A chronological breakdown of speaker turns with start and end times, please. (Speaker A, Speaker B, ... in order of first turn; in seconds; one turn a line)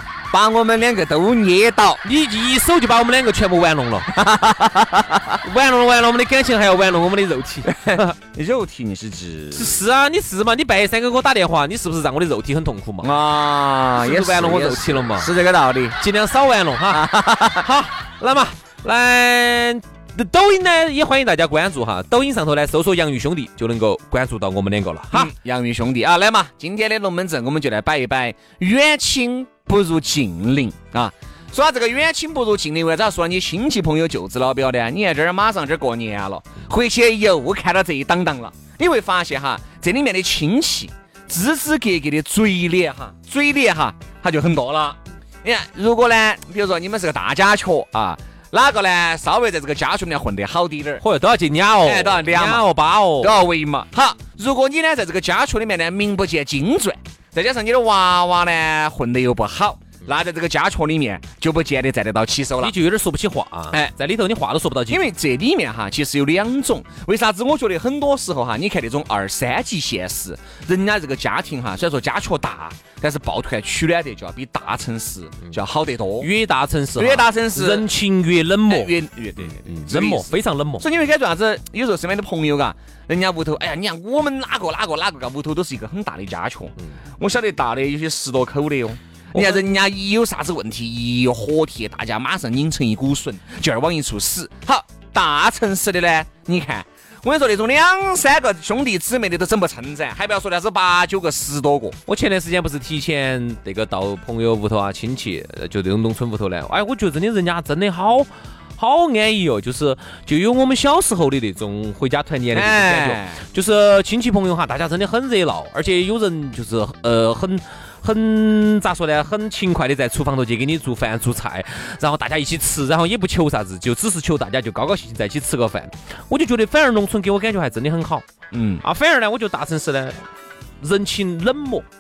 Speaker A: 0.3-2.0
Speaker B: 2.0-4.2
Speaker A: 4.1-5.3
Speaker B: 5.3-8.2
Speaker A: 7.7-9.8
Speaker B: 9.5-13.1
Speaker A: 13.0-16.0
Speaker B: 14.0-15.3
Speaker B: 16.0-25.3
Speaker A: 16.9-17.7
Speaker A: 25.1-51.0
Speaker B: 51.0-53.4
Speaker A: 51.8-62.8
Speaker B: 62.6-65.1
Speaker A: 64.9-76.3
Speaker B: 76.2-80.9
Speaker A: 77.0-77.9
Speaker A: 78.7-102.0
Speaker B: 89.3-89.7
Speaker B: 102.1-128.2
Speaker A: 112.5-113.4
Speaker A: 128.5-128.8
Speaker B: 128.8-130.2
Speaker B: 130.8-131.9